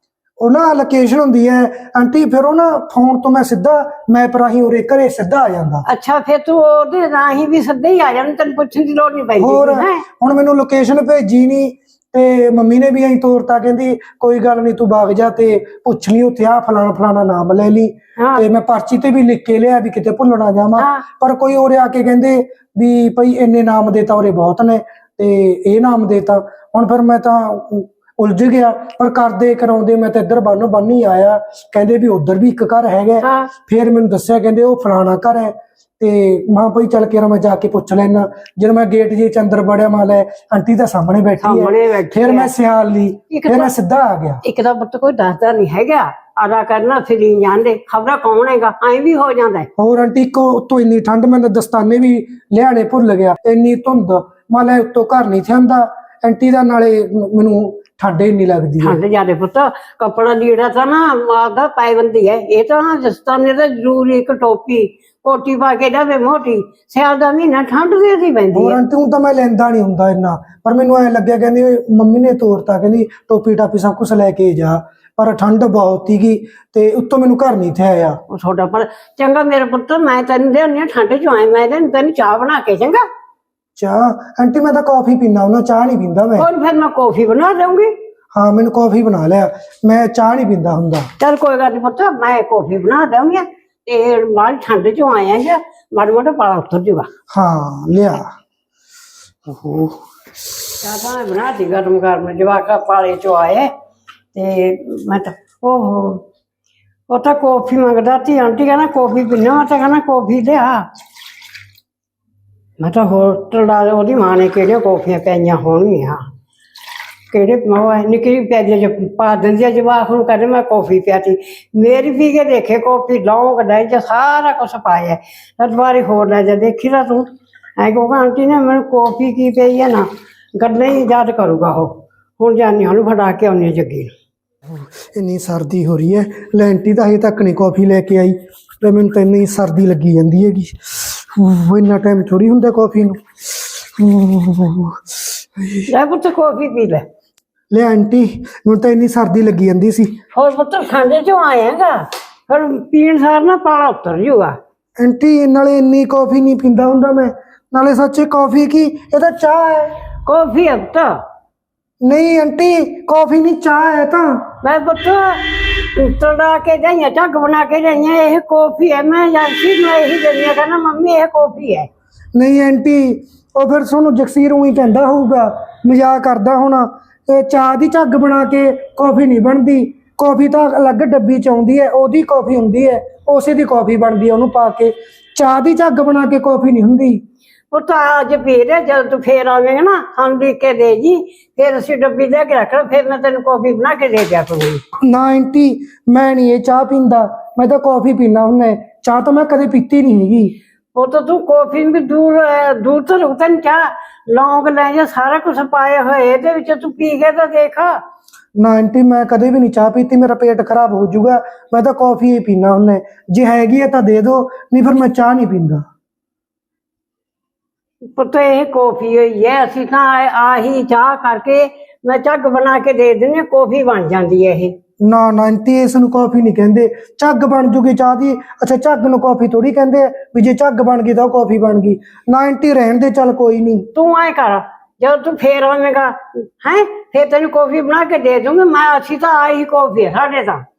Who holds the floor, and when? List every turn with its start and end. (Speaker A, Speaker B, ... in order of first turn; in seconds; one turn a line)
Speaker A: 0.4-5.8
Speaker B: 5.9-10.0
Speaker A: 9.4-44.4
Speaker B: 18.2-18.5
Speaker B: 20.8-21.0
Speaker B: 33.2-33.5
Speaker B: 41.4-42.5
Speaker B: 43.3-43.7
Speaker B: 44.4-49.7
Speaker A: 49.8-59.0
Speaker B: 58.8-68.8
Speaker A: 68.5-78.2
Speaker B: 78.3-83.0
Speaker A: 83.8-86.5
Speaker B: 86.4-87.9
Speaker A: 88.3-91.1
Speaker B: 91.2-97.1
Speaker A: 97.3-98.3
Speaker A: 99.5-100.0
Speaker B: 100.8-103.7
Speaker B: 104.3-106.2
Speaker B: 107.1-110.9
Speaker B: 112.8-116.2
Speaker B: 117.3-127.3
Speaker B: 127.8-134.1
Speaker A: 135.0-145.9
Speaker B: 145.9-147.1
Speaker A: 147.7-150.2
Speaker B: 150.3-154.6
Speaker A: 155.0-159.9
Speaker B: 160.3-161.1
Speaker A: 162.1-164.4
Speaker B: 164.6-165.4
Speaker B: 166.0-171.9
Speaker A: 172.3-187.2
Speaker B: 187.7-194.8
Speaker A: 195.0-200.6
Speaker B: 200.9-207.9
Speaker A: 208.6-215.8
Speaker B: 218.2-224.7
Speaker A: 225.0-233.9
Speaker B: 234.0-240.6